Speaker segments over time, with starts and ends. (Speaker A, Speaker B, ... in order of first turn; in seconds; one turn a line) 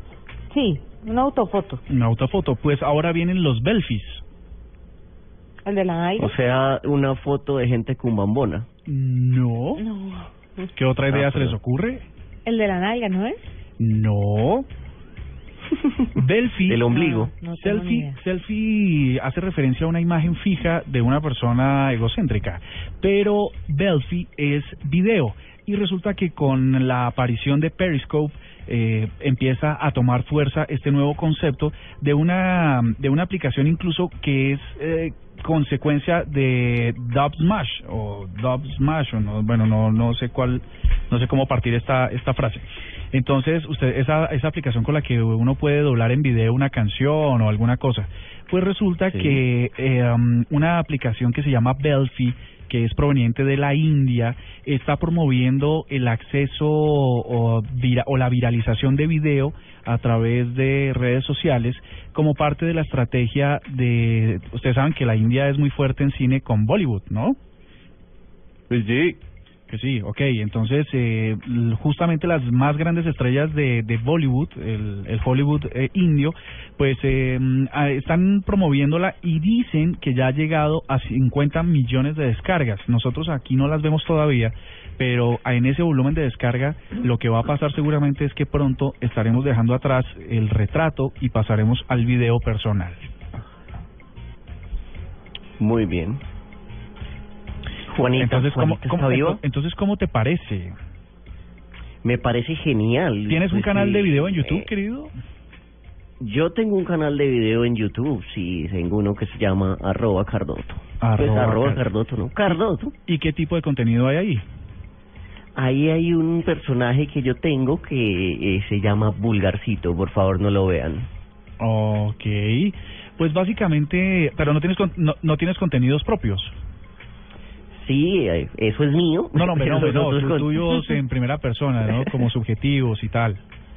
Speaker A: 0.5-1.8
Speaker B: 1.9-4.2
Speaker A: 5.6-6.3
Speaker C: 6.2-8.7
Speaker B: 8.8-9.8
Speaker A: 9.8-10.3
Speaker B: 10.8-12.1
Speaker C: 11.1-11.6
Speaker A: 12.4-13.4
Speaker B: 13.8-14.7
Speaker B: 16.1-16.9
Speaker C: 16.7-17.3
Speaker A: 16.9-18.2
Speaker B: 17.5-67.3
Speaker C: 49.0-49.4
Speaker C: 68.7-69.2
Speaker B: 69.7-93.0
Speaker C: 95.6-96.2
Speaker C: 97.9-99.4
Speaker B: 98.1-100.7
Speaker C: 102.0-104.7
Speaker B: 103.3-105.1
Speaker C: 106.2-112.9
Speaker B: 111.0-111.8
Speaker B: 113.1-114.4
Speaker C: 115.5-121.1
Speaker B: 121.6-126.6
Speaker C: 127.7-130.9
Speaker B: 129.3-133.4
Speaker C: 131.9-132.3